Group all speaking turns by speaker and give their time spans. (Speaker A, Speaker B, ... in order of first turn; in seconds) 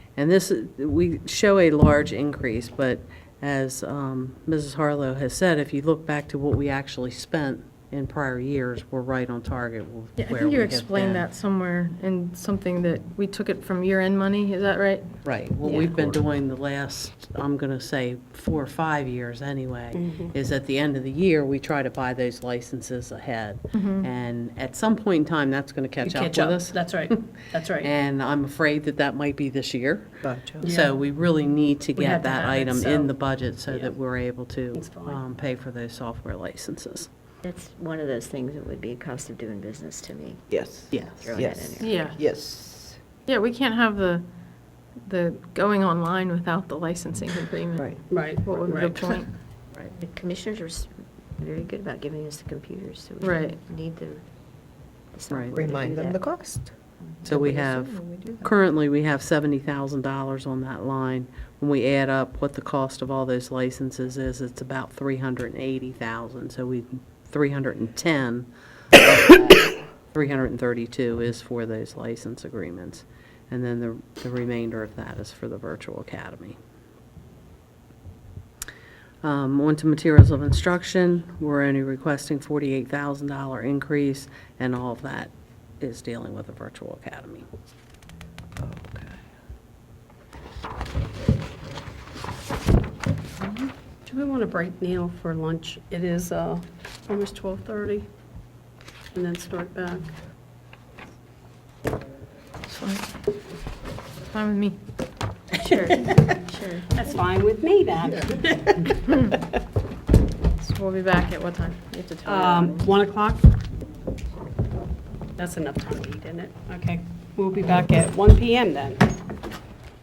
Speaker A: 0.1-11.2, 15.2-27.2, 27.8-37.1, 40.9-41.3, 55.3-55.6, 57.2-76.6, 79.2-87.5
Speaker B: 10.2-16.1, 23.7-24.1, 41.8-42.2, 43.3-44.2, 45.0-49.3, 53.2-53.6, 102.7-103.1, 104.3-104.8, 109.1-109.4, 110.5-112.9
Speaker C: 19.9-20.3, 26.0-27.9, 30.6-30.9, 32.0-33.1, 34.7-35.2, 48.1-48.9, 94.0-98.1, 99.1-100.1, 106.9-109.0, 112.2-113.5, 115.4-119.1
Speaker D: 30.2-30.7, 40.5-43.0, 55.5-56.7, 57.2-58.5, 88.6-89.2
Speaker E: 37.4-40.5, 41.1-42.0, 50.0-54.2, 55.1-56.2, 57.0-57.4, 105.5-107.0